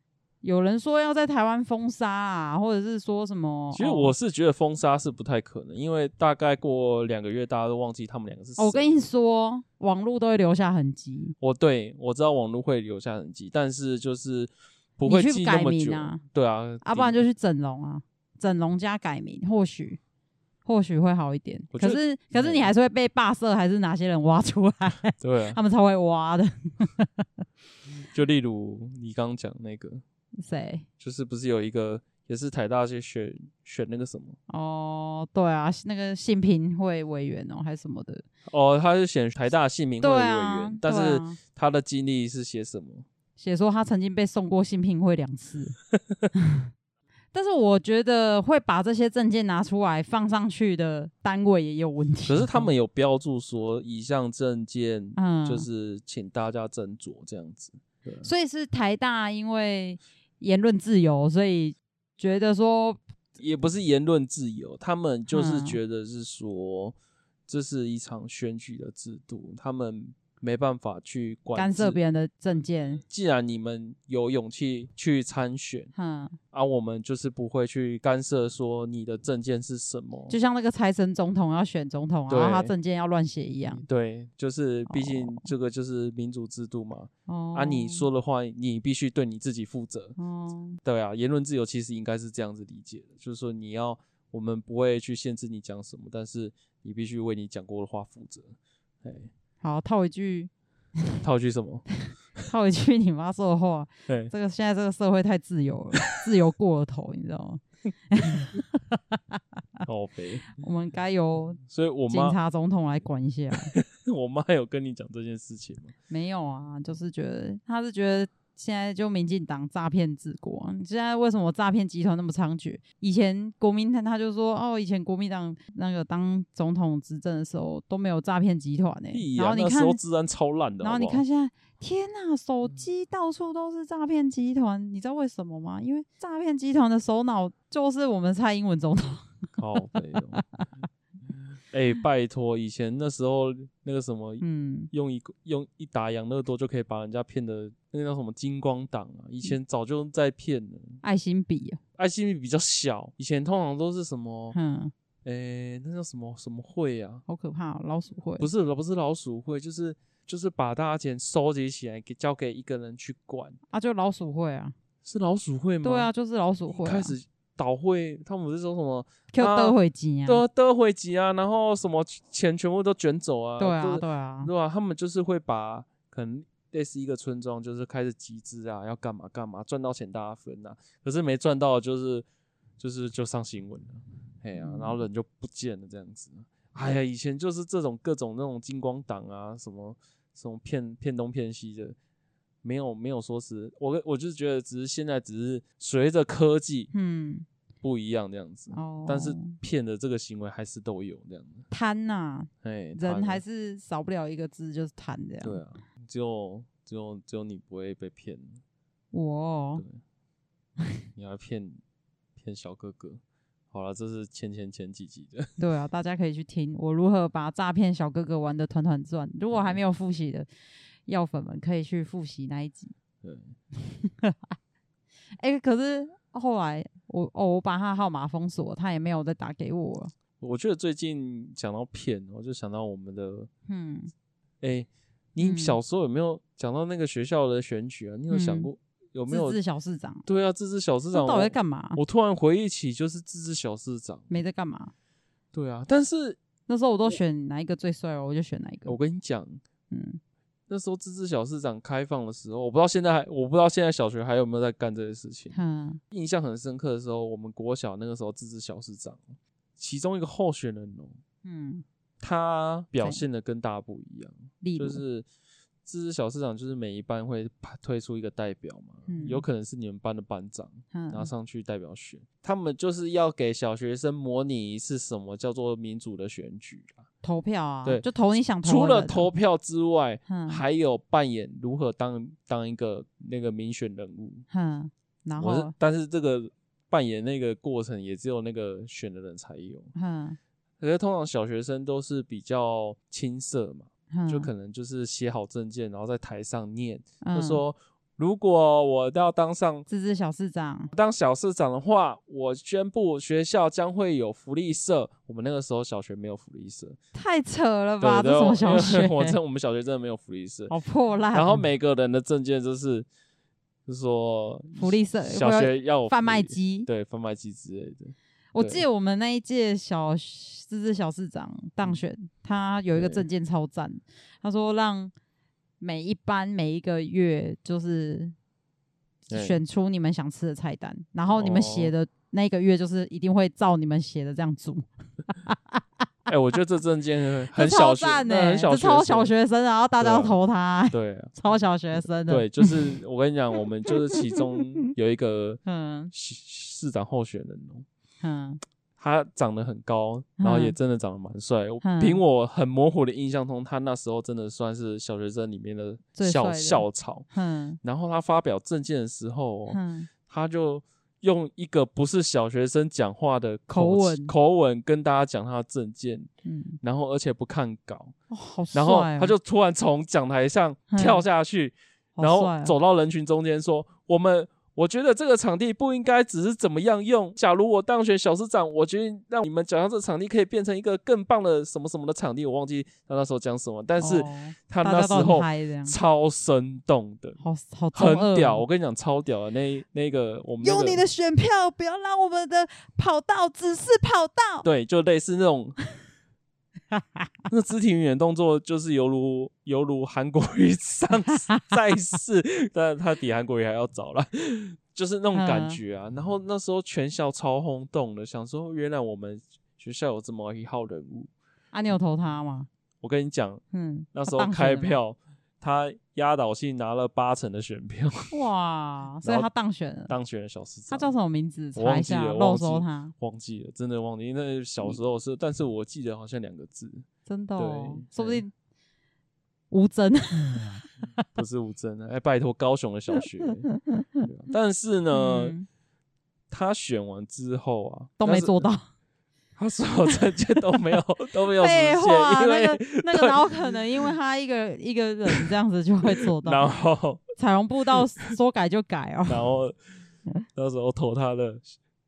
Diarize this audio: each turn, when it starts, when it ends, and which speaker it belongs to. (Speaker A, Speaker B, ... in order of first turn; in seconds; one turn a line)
Speaker A: 0.4-4.1
Speaker B: 3.7-9.0
Speaker A: 8.6-11.3
Speaker B: 11.4-17.2
Speaker A: 15.0-16.2
Speaker A: 16.8-20.0
Speaker A: 20.6-27.2
Speaker B: 21.7-22.7
Speaker B: 25.2-25.6
Speaker B: 28.1-30.0
Speaker A: 30.4-30.9
Speaker B: 31.0-34.4
Speaker A: 34.5-38.2
Speaker B: 38.5-43.0
Speaker A: 40.0-41.4
Speaker A: 43.4-45.8
Speaker A: 46.3-46.7
Speaker A: 47.3-52.7
Speaker B: 52.2-58.3
Speaker A: 55.2-55.6
Speaker A: 58.2-63.0
Speaker B: 63.4-67.0
Speaker A: 65.3-65.8
Speaker B: 67.5-72.0
Speaker A: 71.5-73.0
Speaker B: 73.0-75.9
Speaker A: 75.9-76.4
Speaker B: 76.5-80.3
Speaker A: 80.3-83.8
Speaker B: 82.3-82.7
Speaker B: 83.7-90.2
Speaker A: 84.9-85.5
Speaker A: 87.3-88.0
Speaker A: 90.2-90.8
Speaker B: 90.8-99.3
Speaker A: 99.6-100.5
Speaker B: 101.2-101.9
Speaker A: 102.5-109.4
Speaker B: 109.8-110.5
Speaker A: 110.5-113.7
Speaker B: 111.7-112.4
Speaker B: 113.6-115.9
Speaker A: 116.1-130.0
Speaker B: 129.1-131.2
Speaker A: 130.8-139.3
Speaker B: 139.6-140.4
Speaker B: 141.7-151.0
Speaker A: 144.4-144.9
Speaker A: 151.0-151.8
Speaker B: 152.0-154.6
Speaker A: 154.5-154.9
Speaker B: 155.2-157.2
Speaker A: 157.3-158.5
Speaker B: 158.4-163.6
Speaker A: 163.7-164.7
Speaker B: 165.0-166.1
Speaker A: 165.8-167.1
Speaker B: 166.7-182.2
Speaker A: 169.3-170.4
Speaker A: 173.6-174.5
Speaker B: 182.8-191.9
Speaker A: 184.6-185.0
Speaker B: 192.6-196.9
Speaker A: 196.9-197.4
Speaker B: 197.8-201.6
Speaker A: 198.7-199.6
Speaker A: 201.7-205.6
Speaker B: 202.6-203.4
Speaker B: 205.4-208.6
Speaker A: 209.1-209.8
Speaker B: 211.1-211.8
Speaker B: 212.4-213.2
Speaker B: 213.7-215.6
Speaker A: 215.6-220.5
Speaker B: 219.5-219.8
Speaker A: 221.1-222.9
Speaker B: 223.2-223.5
Speaker A: 223.8-224.5
Speaker A: 225.4-230.1
Speaker B: 230.4-233.5
Speaker A: 233.7-234.1
Speaker B: 234.6-239.6
Speaker A: 235.4-235.8
Speaker A: 238.3-238.7
Speaker A: 239.3-240.2
Speaker B: 240.2-244.3
Speaker A: 241.1-242.0
Speaker A: 244.3-244.9
Speaker B: 245.5-246.4
Speaker A: 246.7-248.9
Speaker B: 248.9-249.6
Speaker A: 249.9-250.2
Speaker B: 250.7-255.5
Speaker A: 255.5-256.0
Speaker B: 256.1-259.2
Speaker B: 259.8-261.2
Speaker A: 261.4-261.8
Speaker B: 262.2-265.2
Speaker A: 264.6-265.0
Speaker B: 265.8-277.0
Speaker A: 269.1-269.4
Speaker A: 270.9-271.3
Speaker A: 277.2-279.3
Speaker B: 278.6-284.4
Speaker A: 280.3-280.6
Speaker A: 284.5-285.7
Speaker B: 285.4-289.9
Speaker A: 289.9-290.4
Speaker B: 290.8-299.9
Speaker A: 294.1-294.5
Speaker A: 297.2-297.6
Speaker A: 299.9-300.9
Speaker B: 300.9-307.0
Speaker A: 307.1-309.4
Speaker B: 308.0-310.7
Speaker A: 310.7-311.6
Speaker B: 311.3-313.1
Speaker B: 313.9-318.8
Speaker A: 314.8-316.9
Speaker A: 318.5-325.1
Speaker B: 322.9-323.2
Speaker A: 325.8-328.3
Speaker A: 329.3-335.8
Speaker B: 329.3-329.6
Speaker B: 331.3-331.9
Speaker B: 336.3-339.3
Speaker A: 337.5-342.9
Speaker B: 340.0-340.4
Speaker B: 340.9-341.4
Speaker B: 342.2-345.6
Speaker A: 343.9-344.4
Speaker A: 345.6-346.1
Speaker B: 346.1-347.9
Speaker A: 348.2-348.6
Speaker B: 349.0-357.2
Speaker A: 350.4-350.7
Speaker A: 351.8-352.2
Speaker A: 356.1-357.8
Speaker B: 357.8-366.3
Speaker A: 359.7-360.1
Speaker A: 363.7-364.3
Speaker A: 366.4-366.8
Speaker B: 366.8-368.1
Speaker A: 368.3-369.3
Speaker B: 368.7-387.4
Speaker A: 370.9-371.2
Speaker A: 372.2-372.7
Speaker A: 384.0-385.9
Speaker A: 387.4-388.6
Speaker B: 387.9-391.0
Speaker A: 390.6-394.7
Speaker B: 394.6-395.8
Speaker A: 396.9-397.3
Speaker B: 397.5-411.3
Speaker A: 405.3-405.8
Speaker A: 411.7-412.7
Speaker B: 413.0-413.6
Speaker A: 413.7-415.0
Speaker B: 414.1-418.3
Speaker A: 418.3-420.1
Speaker B: 420.1-421.1
Speaker A: 420.9-423.1
Speaker B: 421.8-427.1
Speaker A: 427.3-428.5
Speaker B: 427.6-428.4
Speaker A: 429.7-430.8
Speaker B: 431.3-433.7
Speaker B: 434.2-435.6
Speaker A: 435.1-435.7
Speaker B: 436.5-438.7
Speaker A: 438.2-438.8
Speaker B: 439.6-443.8
Speaker A: 441.6-446.7
Speaker B: 446.2-447.2
Speaker A: 447.4-449.5
Speaker B: 449.3-449.7
Speaker B: 450.5-451.7